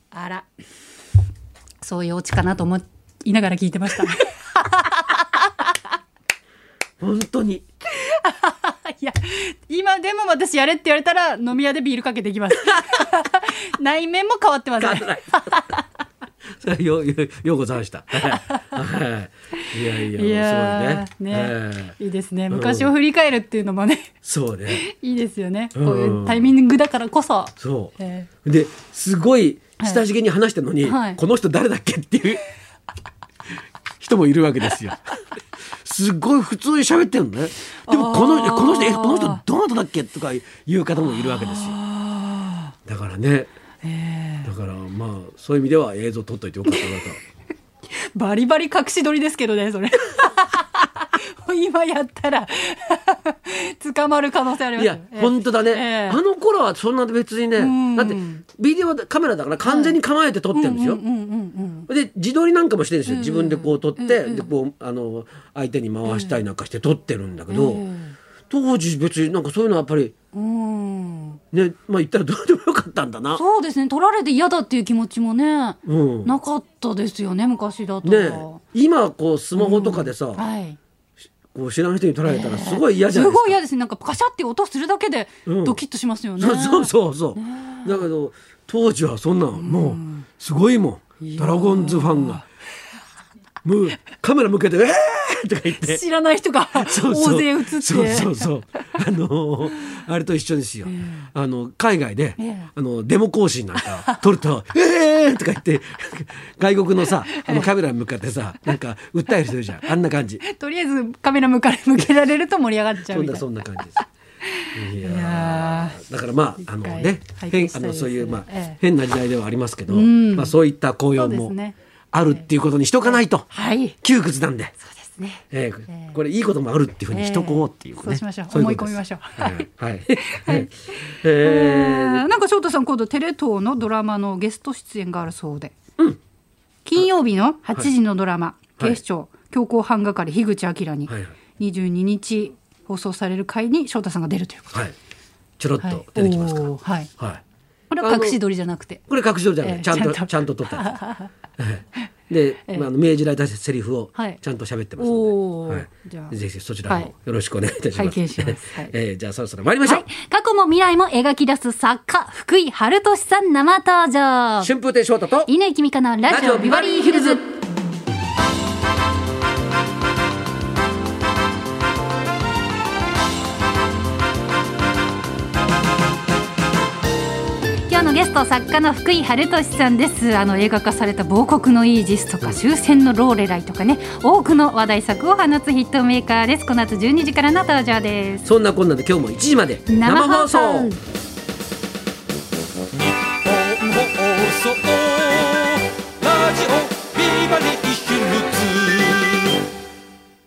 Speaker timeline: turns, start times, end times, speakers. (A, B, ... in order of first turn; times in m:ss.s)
0:00.1-0:00.5 A
0:01.8-0:05.2 A
0:07.0-0:07.7 B
0:07.9-0:15.8 A
0:14.8-0:15.6 B
0:16.6-0:22.0 B
0:18.3-0:18.7 A
0:19.9-0:24.1 A
0:22.5-0:22.9 B
0:24.2-0:24.8 B
0:24.7-0:28.3 A
0:25.8-0:26.5 B
0:27.6-0:32.4 B
0:30.8-0:31.2 A
0:34.0-0:41.8 B
0:37.9-0:39.4 A
0:41.0-0:42.7 A
0:42.9-0:43.5 B
0:43.8-0:44.5 A
0:44.4-0:47.2 B
0:48.2-0:56.2 A
0:54.8-1:01.0 B
0:57.6-0:58.4 A
0:59.6-1:00.0 A
1:00.5-1:01.9 A
1:01.9-1:07.8 B
1:03.1-1:04.5 A
1:06.0-1:06.4 A
1:07.5-1:08.2 A
1:08.5-1:10.1 B
1:10.3-1:11.4 A
1:11.5-1:13.4 B
1:13.3-1:18.6 A
1:15.8-1:16.4 B
1:18.0-1:20.4 B
1:19.6-1:20.8 A
1:21.5-1:23.6 B
1:22.2-1:28.1 A
1:25.5-1:25.8 B
1:26.4-1:32.4 B
1:29.6-1:30.3 A
1:31.2-1:32.4 A
1:33.6-1:36.0 B
1:35.7-1:38.5 A
1:36.7-1:50.4 B
1:40.9-1:41.3 A
1:42.4-1:42.7 A
1:43.8-1:44.3 A
1:47.3-1:47.7 A
1:50.4-1:53.6 A
1:53.1-1:54.0 B
1:54.6-1:56.0 A
1:54.7-2:01.5 B
1:56.6-1:58.8 A
1:59.9-2:00.6 A
2:01.2-2:01.8 A
2:02.1-2:03.5 B
2:03.0-2:04.0 A
2:04.0-2:04.8 B
2:04.9-2:06.2 A
2:05.5-2:12.3 B
2:07.1-2:09.7 A
2:10.2-2:10.7 A
2:11.2-2:15.7 A
2:16.8-2:24.8 A
2:21.1-2:21.4 B
2:25.6-2:27.4 B
2:25.8-2:27.1 A
2:27.9-2:29.1 A
2:28.0-2:28.4 B
2:29.1-2:31.0 B
2:29.6-2:31.3 A
2:31.6-2:40.1 B
2:35.0-2:36.4 A
2:38.0-2:38.9 A
2:39.8-2:44.7 A
2:44.6-2:45.5 B
2:45.5-2:47.5 A
2:46.3-2:47.4 B
2:57.9-3:08.5 A
3:08.4-3:11.0 B
3:09.9-3:11.0 A
3:14.1-3:15.4 C
3:16.2-3:19.0 C